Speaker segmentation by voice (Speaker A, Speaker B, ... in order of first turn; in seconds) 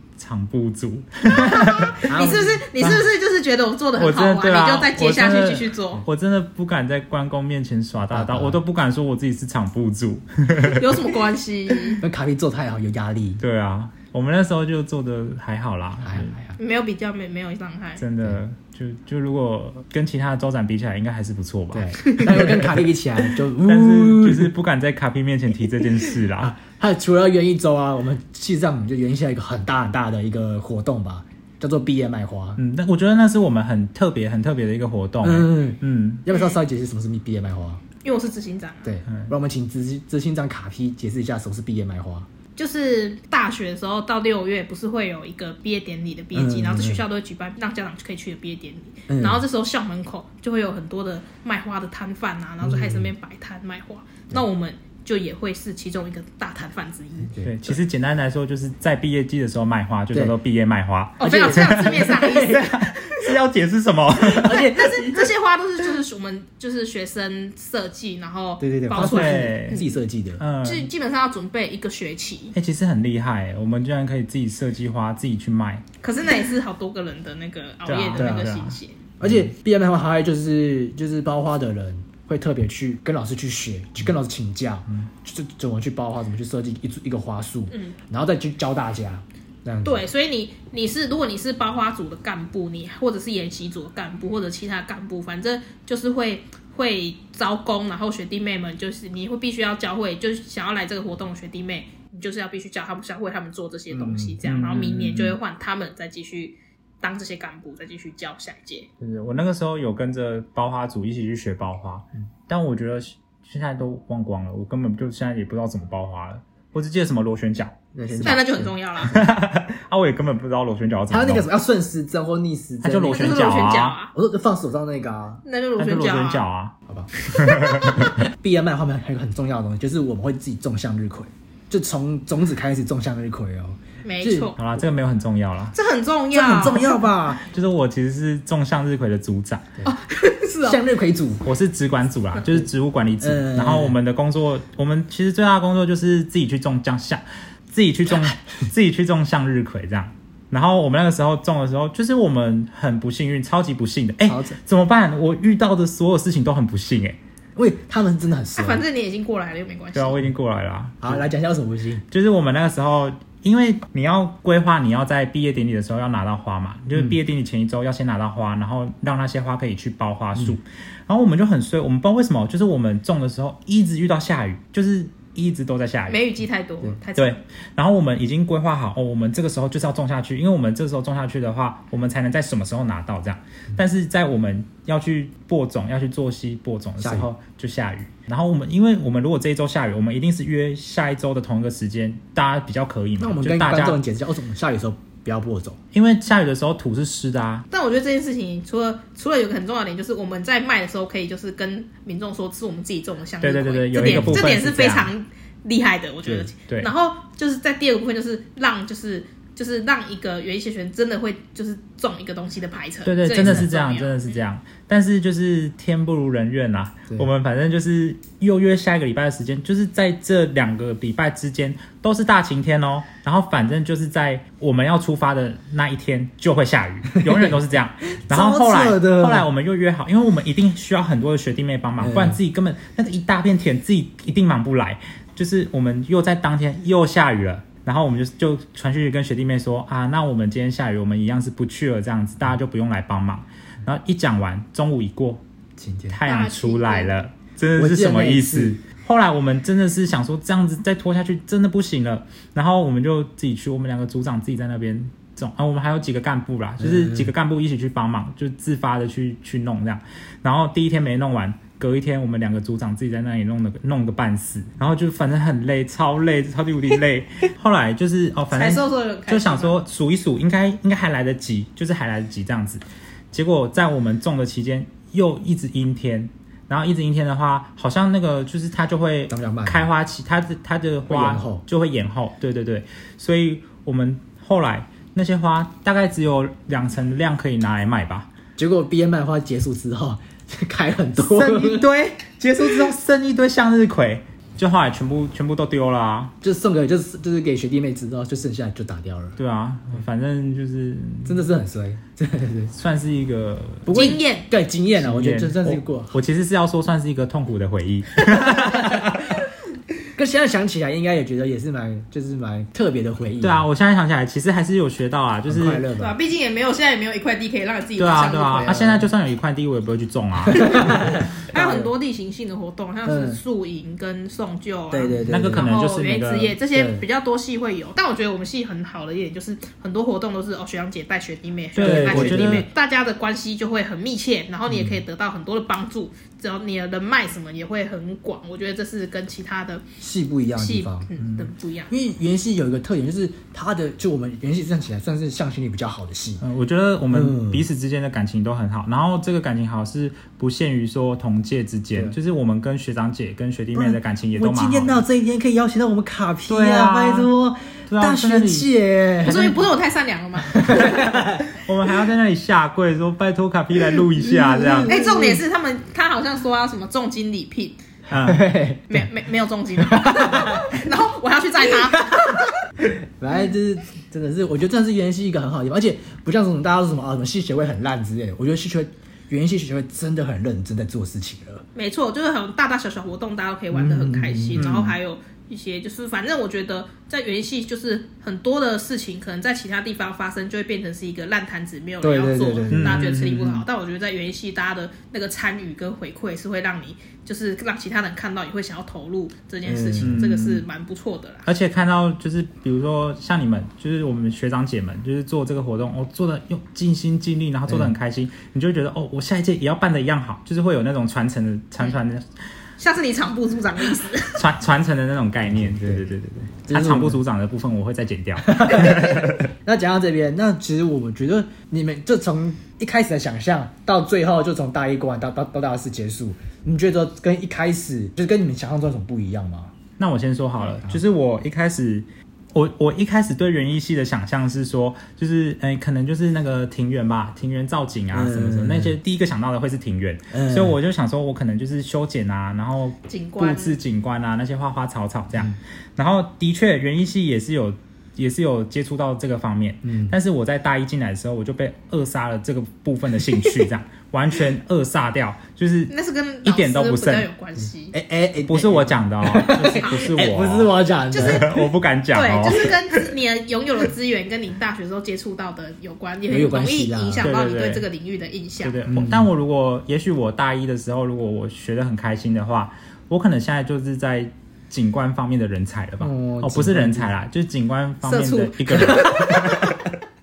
Speaker A: 0.2-2.0, 4.0-11.0, 13.4-16.4, 18.0-22.7, 23.6-26.5, 32.6-36.2, 57.4-64.7, 69.0-69.8, 70.4-70.9, 72.5-75.8, 77.8-79.5, 104.4-105.4, 109.0-118.3, 119.0-121.5, 122.8-124.0, 125.8-126.8, 127.3-128.3, 134.6-135.7, 137.4-139.8, 141.4-157.2, 159.9-161.2, 162.1-176.2, 177.2-194.0, 195.9-197.7, 203.4-205.1, 213.0-245.4, 246.1-288.3, 291.2-296.3, 299.4-301.5, 302.7-303.9, 305.0-309.4, 313.4-315.8, 318.0-320.9, 325.3-326.6, 331.7-332.7, 346.4-355.0, 356.5-357.3, 357.9-358.7, 360.9-364.9, 368.1-368.4, 384.6-384.9, 392.7-393.6, 400.0-400.6, 401.4-412.3, 414.3-419.5, 430.0-455.9, 456.4-457.3, 458.5-463.1, 467.2-467.8, 468.6-479.8
Speaker B: 1.3-6.0, 10.6-12.0, 16.6-18.0, 36.3-36.6, 38.0-38.9, 42.6-57.3, 61.2-62.7, 64.5-69.9, 70.6-72.5, 76.0-79.0, 87.7-88.0, 89.8-108.9, 118.2-119.2, 123.1-124.1, 125.4-126.4, 127.7-128.1, 134.0-134.6, 135.7-137.0, 139.9-140.8, 158.6-160.2, 176.1-177.4, 197.7-214.3, 246.2-247.1, 268.5-269.7, 303.9-304.5, 316.0-318.8, 320.6-339.8, 340.6-341.9, 359.2-360.9, 364.9-367.8, 368.9-372.5, 381.7-401.5, 412.8-414.4, 443.1-443.8, 455.9-457.9, 459.7-460.0, 461.1-468.8, 478.0-479.8
Speaker C: 2.1-3.0, 8.1-8.6, 12.0-13.4, 16.0-16.6, 21.7-24.5, 26.4-32.6, 35.2-37.8, 38.8-42.3, 46.3-47.0, 49.1-49.4, 52.6-53.1, 57.2-57.5, 61.2-63.2, 64.2-65.2, 68.6-70.4, 78.2-78.5, 79.2-90.0, 103.9-104.4, 117.9-118.7, 121.1-123.5, 124.1-125.4, 126.9-134.5, 136.3-137.4, 140.6-141.4, 143.2-143.9, 154.2-154.6, 157.6-158.8, 161.0-162.0, 187.0-187.3, 193.2-195.8, 204.0-204.4, 227.1-229.4, 232.0-232.4, 245.8-246.2, 247.8-248.7, 256.8-257.3, 279.3-279.9, 281.1-281.6, 288.6-291.9, 296.4-299.4, 301.2-302.7, 303.8-306.1, 308.3-309.1, 310.1-313.6, 315.5-316.2, 318.5-319.1, 320.5-321.9, 323.1-323.4, 324.9-325.7, 326.7-327.0, 331.8-332.7, 334.7-335.0, 340.0-341.4, 341.9-346.4, 347.1-347.6, 353.7-359.6, 360.5-361.5, 364.2-365.4, 368.2-369.0, 369.8-370.7, 371.9-381.6, 383.7-384.7, 392.0-393.4, 399.6-400.2, 415.5-416.0, 416.7-417.2, 418.4-429.7, 438.1-438.9, 440.3-440.8, 449.8-450.1, 457.9-461.4, 466.3-467.3, 468.9-469.3, 476.0-477.1